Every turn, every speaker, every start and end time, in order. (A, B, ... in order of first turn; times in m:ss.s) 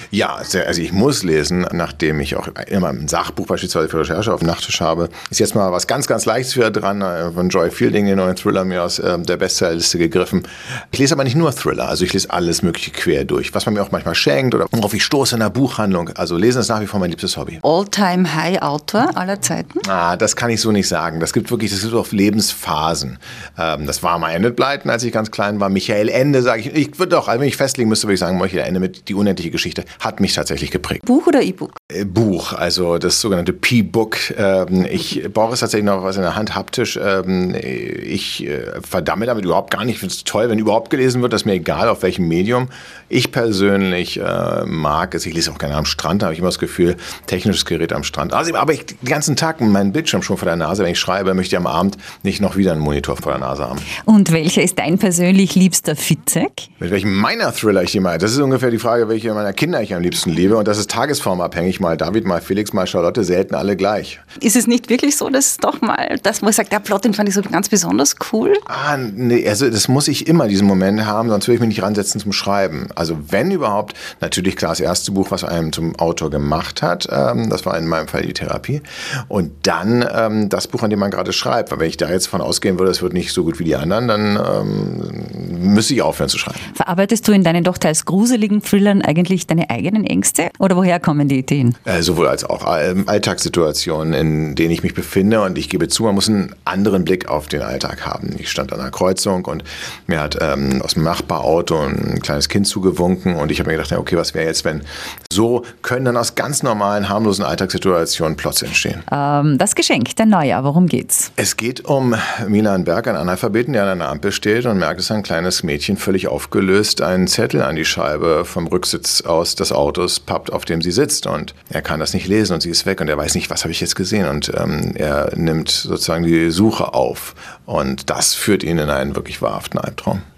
0:00.1-0:17.6 A
0:17.6-0:19.8 B
0:19.8-0:31.0 A
0:31.0-0:31.8 B
0:31.9-0:53.9 A
0:54.0-0:56.7 B
0:56.8-1:04.2 A
1:04.4-1:08.6 B
1:08.7-1:26.7 A
1:26.7-1:31.8 B
1:31.8-1:49.0 A
1:49.1-1:51.3 B
1:51.4-2:10.2 A